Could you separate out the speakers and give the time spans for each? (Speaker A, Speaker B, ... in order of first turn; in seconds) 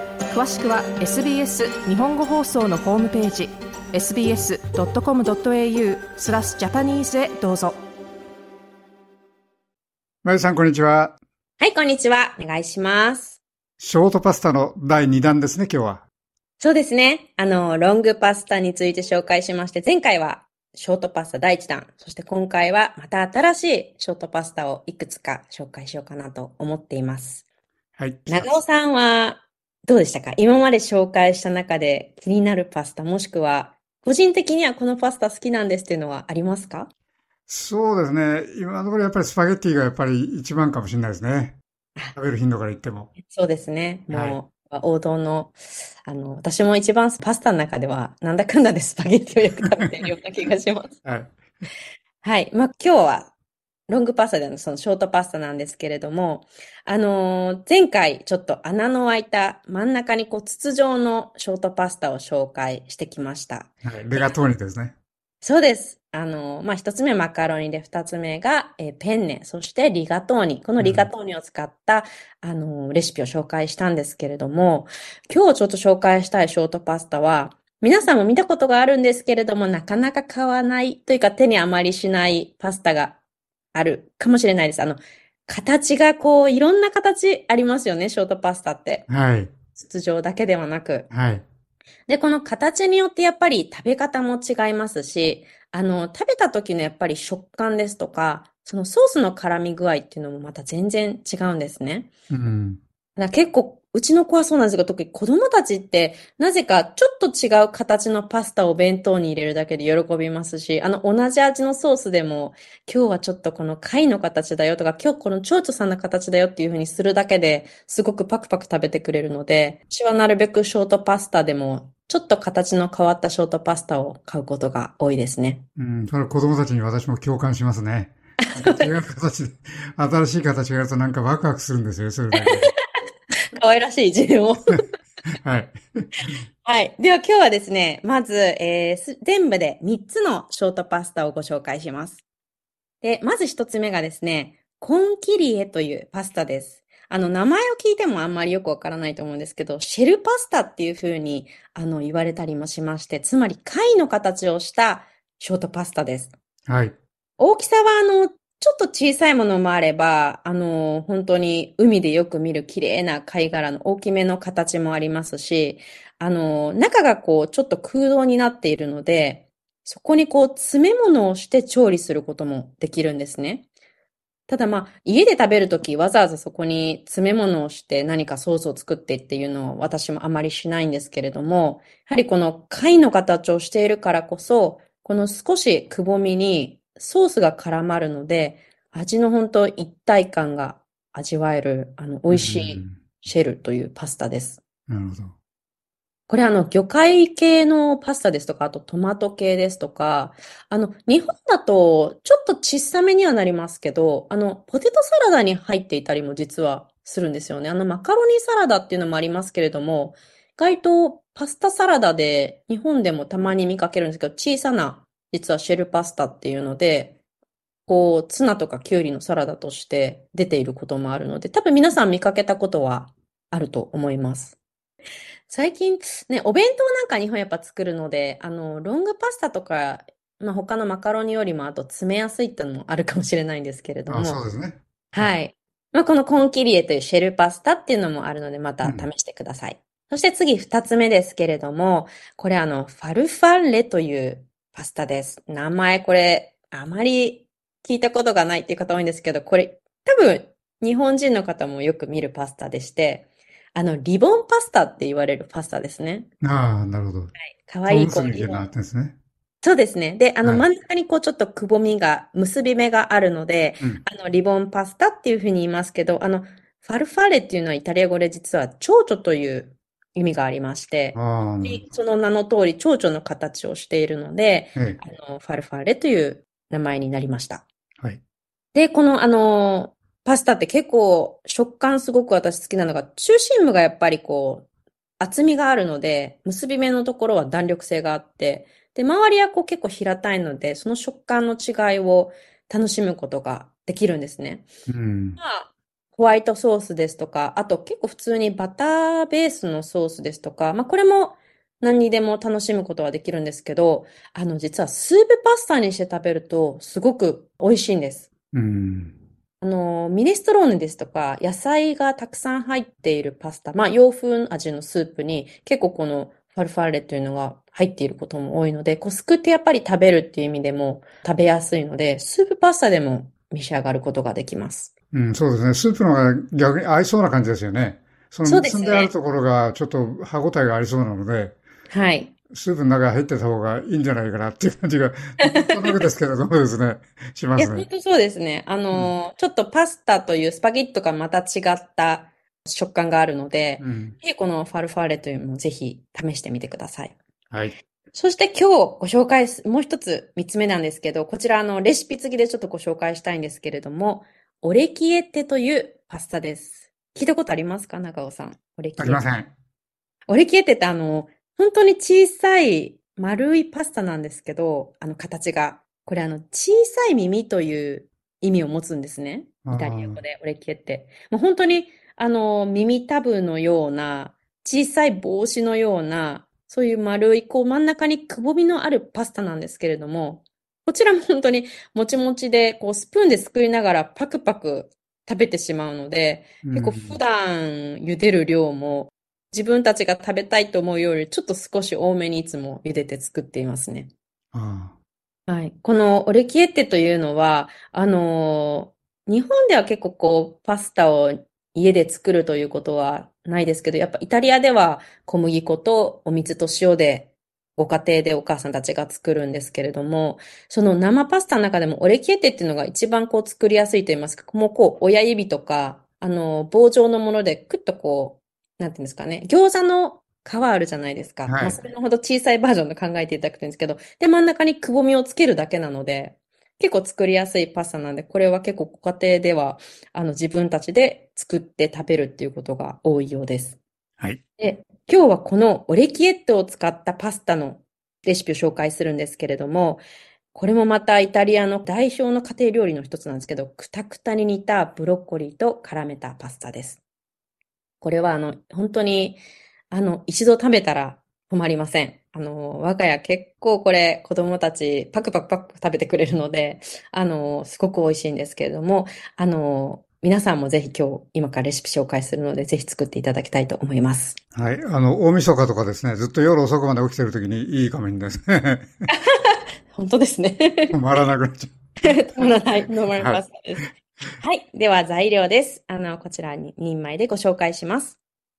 Speaker A: 0.3-7.8
Speaker B: 10.2-11.2, 13.8-16.0, 28.0-28.5, 37.5-41.6, 42.1-43.1, 44.1-44.4, 51.0-51.3, 63.8-64.9, 70.8-71.1, 89.1-89.5, 91.1-91.4, 102.3-102.8, 125.8-132.7, 135.4-136.3, 156.7-156.9, 192.3-193.0, 194.9-195.3, 234.1-235.3, 238.8-239.1, 256.4-257.3, 257.9-259.2, 271.1-271.9, 294.9-295.4, 308.5-309.1, 325.1-331.6, 332.5-337.9, 343.8-344.1, 359.0-359.5, 369.6-370.2, 386.6-387.2, 394.5-394.9, 421.4-421.8, 464.5-468.9, 470.9-473.8
Speaker C: 11.6-13.4, 16.6-27.4, 28.3-36.9, 43.2-51.0, 52.2-53.3, 53.9-64.3, 65.4-83.2, 83.7-89.1, 89.7-91.1, 92.1-102.1, 103.2-125.6, 128.4-129.0, 132.3-132.7, 133.6-134.8, 136.6-142.2, 143.0-156.3, 157.4-173.7, 174.5-194.6, 196.3-217.2, 217.8-224.6, 225.5-234.4, 235.1-256.3, 257.4-258.6, 259.6-277.6, 278.7-284.7, 285.2-294.7, 295.4-308.3, 309.6-324.9, 328.4-329.1, 331.9-332.3, 335.4-336.0, 337.6-347.1, 348.1-359.2, 360.3-394.1, 395.5-433.8, 434.6-447.0, 448.0-464.4, 469.1-470.9, 472.0-473.8, 474.4-478.2